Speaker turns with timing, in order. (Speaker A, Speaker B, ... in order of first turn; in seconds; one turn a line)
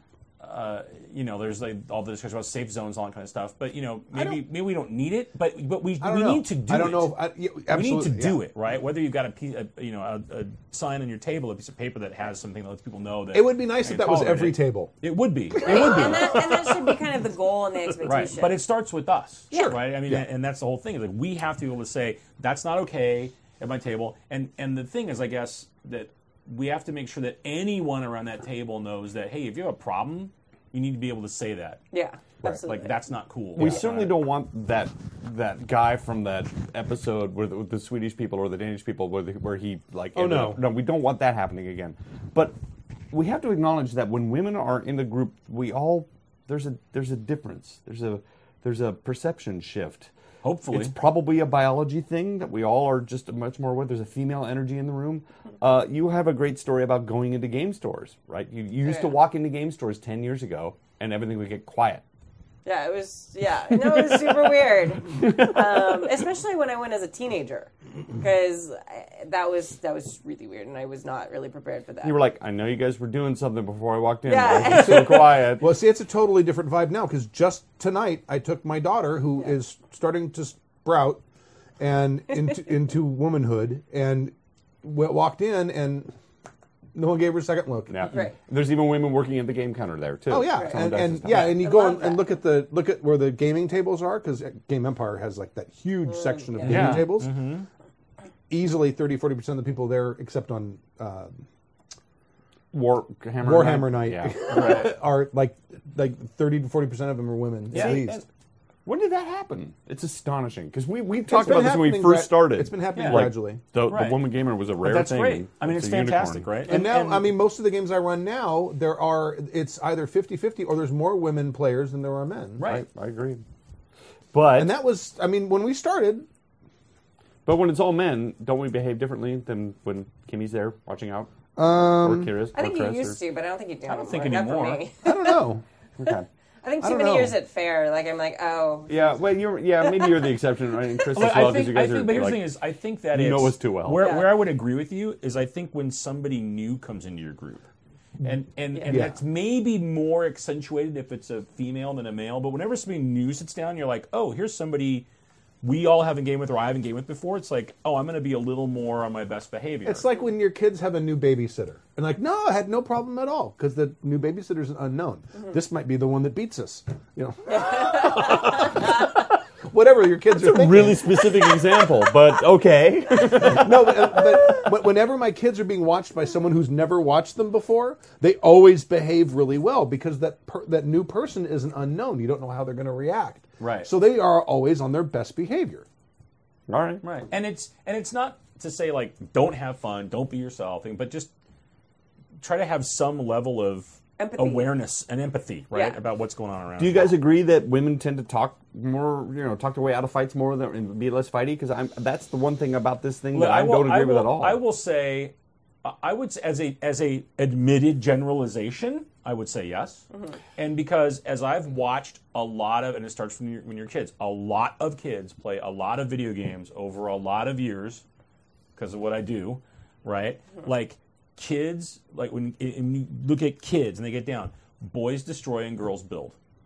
Speaker A: 0.4-7.1
Speaker B: 4.1-4.4
Speaker B: 6.0-8.4
Speaker A: 7.7-16.4
Speaker B: 13.3-14.9
Speaker B: 15.5-16.2
Speaker C: 15.6-18.6
Speaker A: 18.0-31.8
Speaker B: 19.5-20.2
Speaker C: 31.9-32.9
Speaker A: 32.5-34.2
Speaker D: 33.5-42.5
Speaker B: 40.1-40.6
Speaker D: 43.1-50.1
Speaker A: 50.4-50.9
Speaker D: 50.7-62.0
Speaker C: 58.9-59.2
Speaker C: 62.6-72.2
Speaker D: 65.1-66.0
Speaker D: 72.0-75.7
Speaker C: 74.3-75.4
Speaker B: 74.6-81.2
Speaker B: 81.8-86.1
Speaker B: 86.9-88.1
Speaker D: 87.9-91.7
Speaker B: 90.3-97.3
Speaker C: 90.5-92.2
Speaker C: 96.0-96.9
Speaker A: 96.6-97.7
Speaker D: 96.7-97.1
Speaker B: 98.5-101.4
Speaker D: 102.7-104.5
Speaker B: 103.4-108.2
Speaker A: 104.5-104.9
Speaker A: 107.7-108.2
Speaker D: 107.7-108.2
Speaker D: 108.8-116.5
Speaker B: 111.2-113.6
Speaker A: 112.9-113.2
Speaker A: 113.8-114.2
Speaker A: 114.8-117.3
Speaker B: 116.7-122.7
Speaker A: 122.6-122.8
Speaker D: 122.6-123.4
Speaker D: 124.3-124.7
Speaker B: 124.5-126.3
Speaker D: 127.5-133.2
Speaker B: 131.6-132.3
Speaker C: 132.5-135.4
Speaker A: 133.9-134.8
Speaker B: 135.0-135.6
Speaker D: 136.0-136.3
Speaker C: 136.6-139.2
Speaker B: 136.8-137.4
Speaker D: 138.9-142.5
Speaker C: 139.8-140.3
Speaker A: 141.1-147.6
Speaker D: 143.1-144.1
Speaker C: 144.0-144.4
Speaker A: 148.2-155.1
Speaker C: 148.7-149.0
Speaker B: 148.9-149.2
Speaker A: 155.6-160.1
Speaker B: 159.8-171.3
Speaker C: 167.5-168.8
Speaker D: 170.3-174.7
Speaker B: 173.3-185.8
Speaker A: 183.6-183.9
Speaker D: 186.7-187.0
Speaker A: 187.0-191.3
Speaker A: 192.4-197.1
Speaker C: 194.2-194.7
Speaker C: 195.7-196.0
Speaker D: 196.8-204.6
Speaker A: 203.3-205.3
Speaker A: 205.8-210.0
Speaker C: 210.1-210.4
Speaker A: 210.6-218.0
Speaker A: 218.8-226.3